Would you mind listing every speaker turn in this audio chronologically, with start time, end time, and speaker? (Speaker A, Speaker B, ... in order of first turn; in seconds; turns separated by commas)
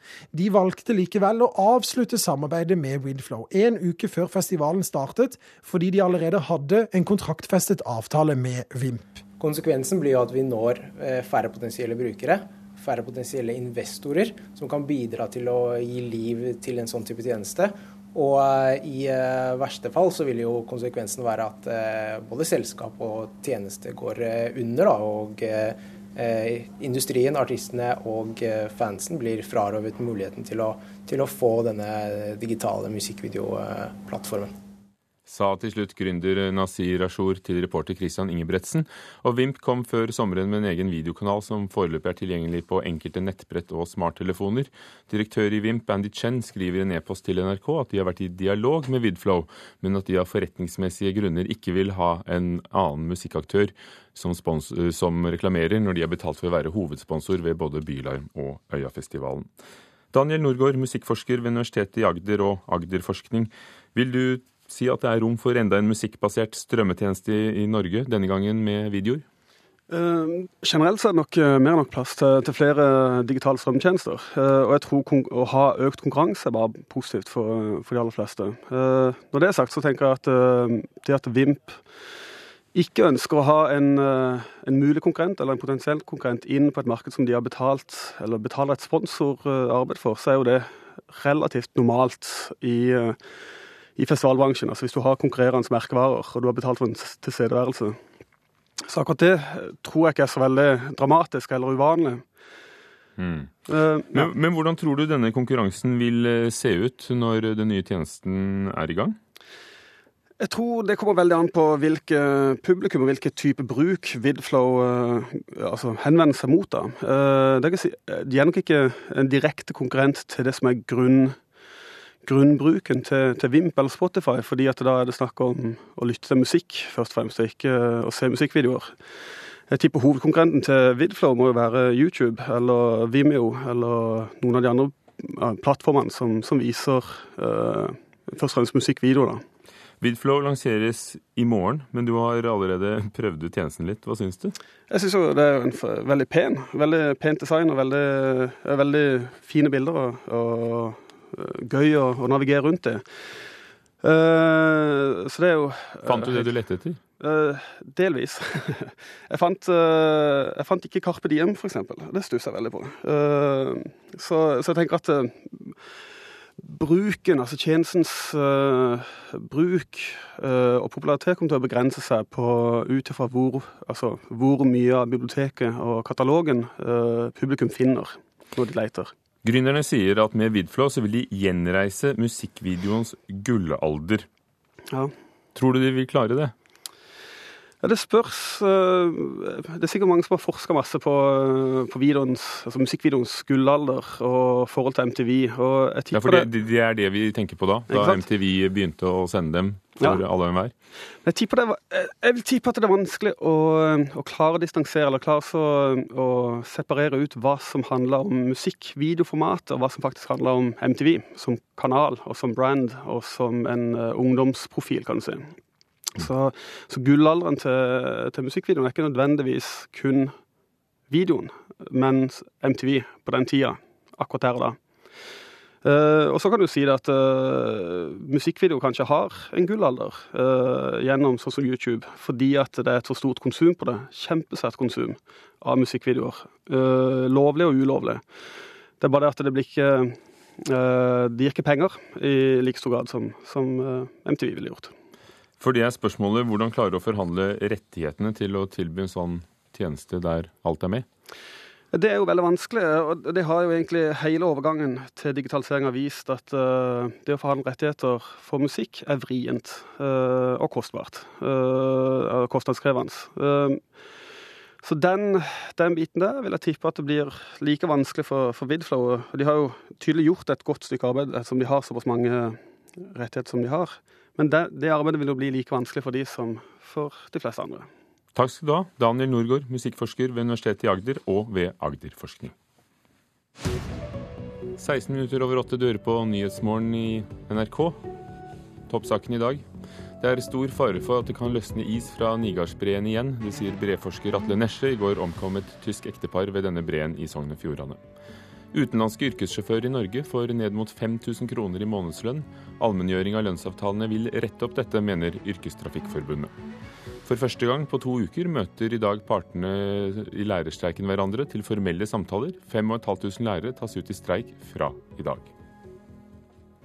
Speaker A: 0.3-9.2, Speaker B: 9.4-34.5, Speaker C: 35.3-59.5, Speaker C: 60.1-69.2, Speaker D: 69.9-82.1, Speaker D: 82.7-93.3, Speaker D: 94.0-98.0, Speaker D: 98.8-102.2, Speaker C: 103.2-103.5, Speaker D: 103.7-104.3, Speaker C: 104.1-109.2, Speaker D: 110.4-121.4, Speaker D: 122.2-139.4, Speaker C: 140.0-144.6, Speaker D: 144.9-153.0, Speaker D: 154.0-156.6, Speaker C: 156.0-157.0, Speaker D: 157.2-165.8, Speaker D: 166.6-179.1, Speaker C: 179.4-184.3, Speaker C: 185.5-186.5, Speaker D: 187.8-196.5, Speaker C: 196.1-200.7, Speaker D: 197.9-198.2, Speaker D: 201.2-215.6, Speaker D: 216.2-220.3, Speaker D: 221.1-224.8, Speaker D: 225.8-238.2, Speaker D: 239.0-244.9, Speaker C: 245.6-251.1, Speaker D: 251.9-264.1, Speaker D: 264.8-277.9, Speaker C: 278.3-282.5, Speaker C: 284.8-288.0, Speaker C: 288.9-289.6, Speaker C: 290.2-298.0, Speaker C: 298.7-306.5, Speaker C: 307.2-315.5